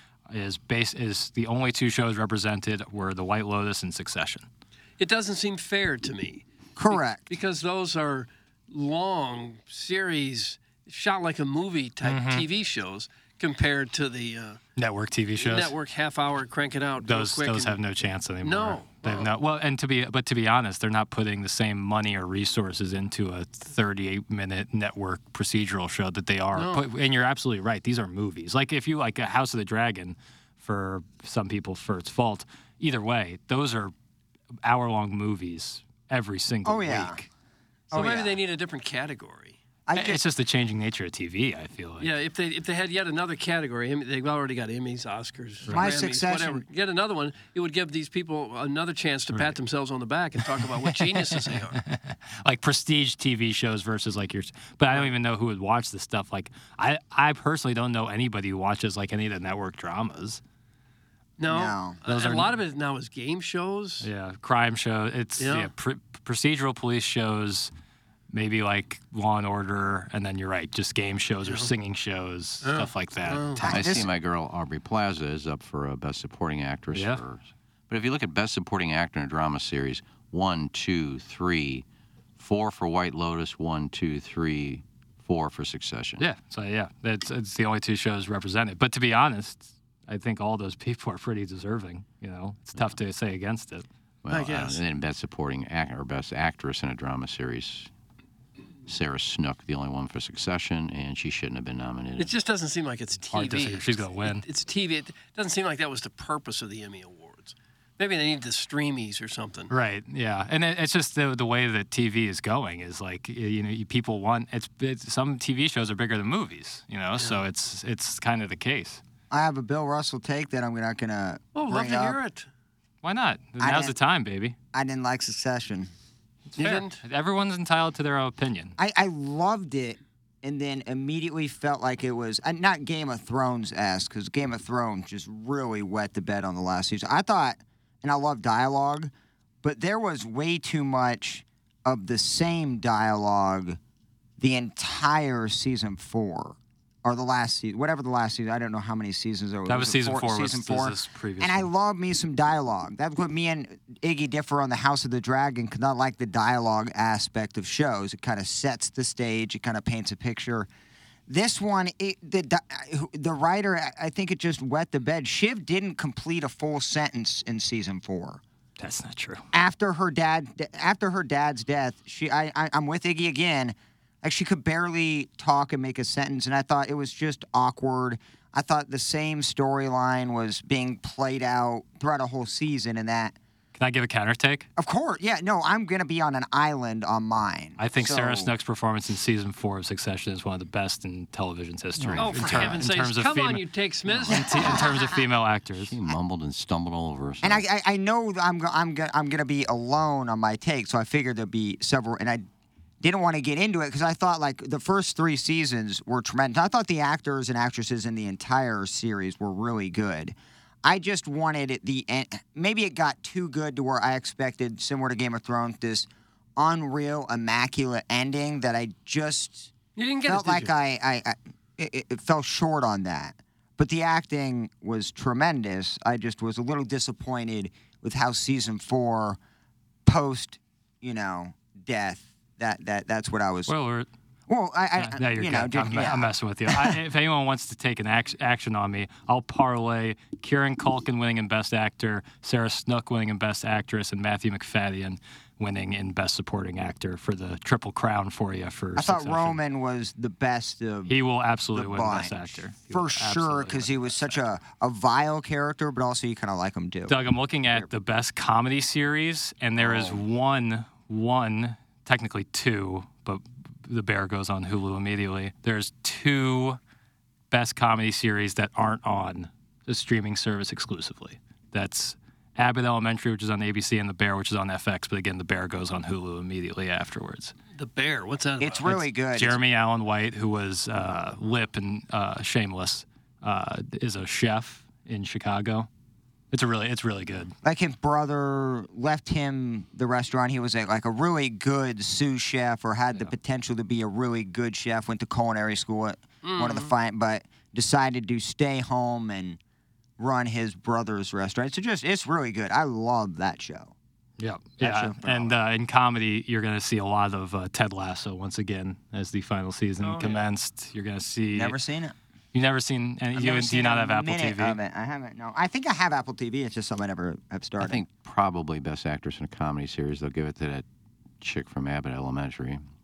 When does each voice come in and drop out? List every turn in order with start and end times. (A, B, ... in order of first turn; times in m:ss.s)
0:00.3-0:04.5 A
0:05.0-0:14.6 B
0:06.8-0:07.2 C
0:12.0-0:12.4 A
0:14.8-0:15.7 A
0:15.4-0:17.8 B
0:17.0-0:33.9 A
0:18.4-0:19.3 B
0:26.5-0:26.8 B
0:34.6-0:37.3 A
0:36.6-0:37.2 C
0:37.9-0:39.6 B
0:37.9-0:38.4 C
0:39.9-0:40.2 C
0:39.9-0:42.1 A
0:42.0-0:51.8 B
0:45.7-0:46.6 C
0:50.9-1:00.4 A
1:01.4-1:04.1 B
1:01.5-1:02.0 C
1:02.0-1:02.6 A
1:04.0-1:07.7 A
1:05.4-1:05.7 B
1:08.3-1:13.9 A
1:11.4-1:11.7 B
1:12.6-1:13.7 B
1:13.6-1:14.1 C
1:13.7-1:21.8 D
1:16.9-1:17.2 A
1:22.4-1:26.2 D
1:26.2-1:33.8 A
1:34.2-1:37.9 D
1:34.3-1:34.8 B
1:38.8-1:42.3 D
1:42.2-1:49.7 B
1:43.3-1:44.4 A
1:49.7-1:59.0 A
1:57.2-1:57.4 B
1:59.3-2:02.2 C
2:01.5-2:02.5 B
2:03.0-2:04.5 A
2:03.6-2:03.9 C
2:04.7-2:05.9 C
2:06.5-2:08.7 A
2:06.6-2:07.0 B
2:08.8-2:19.1 C
2:19.6-2:23.8 C
2:24.4-2:40.7 C
2:29.7-2:31.7 A
2:41.3-2:48.4 C
2:48.8-2:49.4 A
2:49.5-3:03.4 C
3:03.7-3:04.7 A
3:04.8-3:08.5 C
3:07.8-3:13.6 A
3:12.0-3:12.8 D
3:12.2-3:14.8 B
3:14.2-3:15.9 A
3:14.3-3:14.8 C
3:15.8-3:17.6 D
3:17.4-3:22.4 C
3:23.0-3:39.7 C
3:39.9-3:40.7 B
3:40.2-3:49.4 C
3:50.0-3:53.7 C
3:53.7-3:54.1 A
3:54.5-3:57.0 C
3:55.0-4:09.6 A
4:08.9-4:11.2 C
4:11.1-4:14.4 A
4:11.7-4:17.2 C
4:17.1-4:26.8 A
4:19.8-4:20.2 C
4:27.5-4:37.5 A
4:37.7-4:39.0 B
4:38.6-4:39.6 C
4:39.3-4:45.9 A
4:46.5-4:47.5 A
4:47.6-4:59.6 C
4:56.4-4:56.9 B
5:00.2-5:03.9 C
5:04.4-5:11.8 A
5:04.8-5:05.5 C
5:10.0-5:10.5 B
5:11.5-5:12.1 C
5:12.5-5:14.8 A
5:13.3-5:18.0 C
5:17.8-5:20.8 D
5:21.4-5:22.8 D